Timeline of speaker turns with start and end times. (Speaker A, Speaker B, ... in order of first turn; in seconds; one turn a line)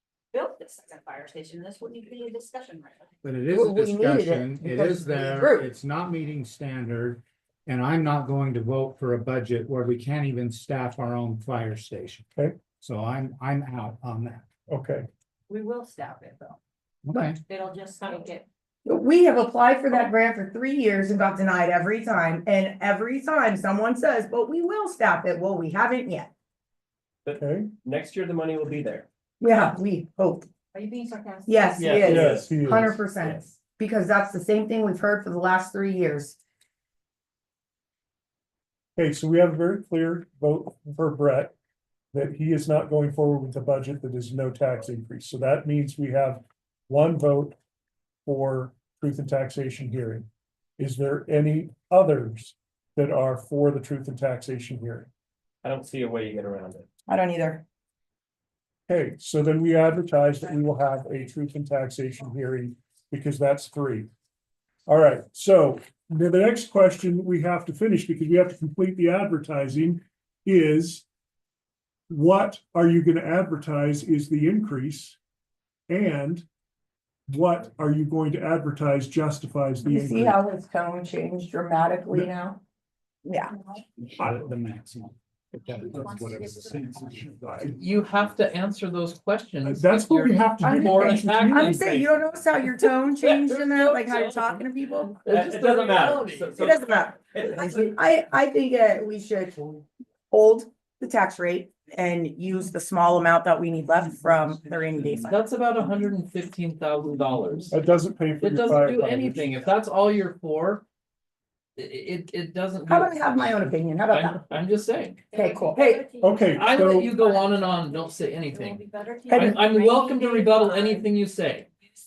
Speaker A: 0.3-3.1
Speaker B: 3.2-12.2
Speaker C: 3.5-5.6
Speaker B: 12.8-14.5
Speaker D: 14.7-15.1
Speaker A: 15.5-16.6
Speaker B: 17.1-17.4
Speaker A: 17.2-18.5
Speaker C: 18.9-26.3
Speaker E: 27.2-29.1
Speaker D: 27.4-27.7
Speaker C: 29.4-30.5
Speaker A: 30.7-32.0
Speaker C: 31.5-36.4
Speaker F: 31.8-32.4
Speaker D: 32.0-33.0
Speaker D: 39.0-41.5
Speaker D: 42.1-47.6
Speaker D: 48.3-50.3
Speaker D: 50.8-55.1
Speaker E: 55.6-56.9
Speaker C: 57.1-57.6
Speaker D: 58.9-64.1
Speaker D: 64.9-71.0
Speaker D: 72.1-75.2
Speaker D: 75.9-76.5
Speaker D: 77.3-80.4
Speaker C: 79.8-82.6
Speaker C: 83.3-83.5
Speaker B: 84.2-87.5
Speaker A: 86.2-87.2
Speaker D: 87.4-87.8
Speaker F: 87.7-94.7
Speaker D: 89.6-92.1
Speaker C: 90.6-95.2
Speaker F: 95.2-96.7
Speaker E: 95.3-97.9
Speaker C: 96.6-105.3
Speaker F: 105.3-107.8
Speaker D: 107.7-109.5
Speaker F: 108.4-110.8
Speaker F: 111.8-115.2
Speaker C: 112.9-114.4
Speaker A: 115.3-121.1
Speaker C: 115.3-116.1
Speaker D: 116.2-117.2
Speaker F: 116.5-118.8
Speaker C: 119.3-119.7
Speaker F: 119.3-121.7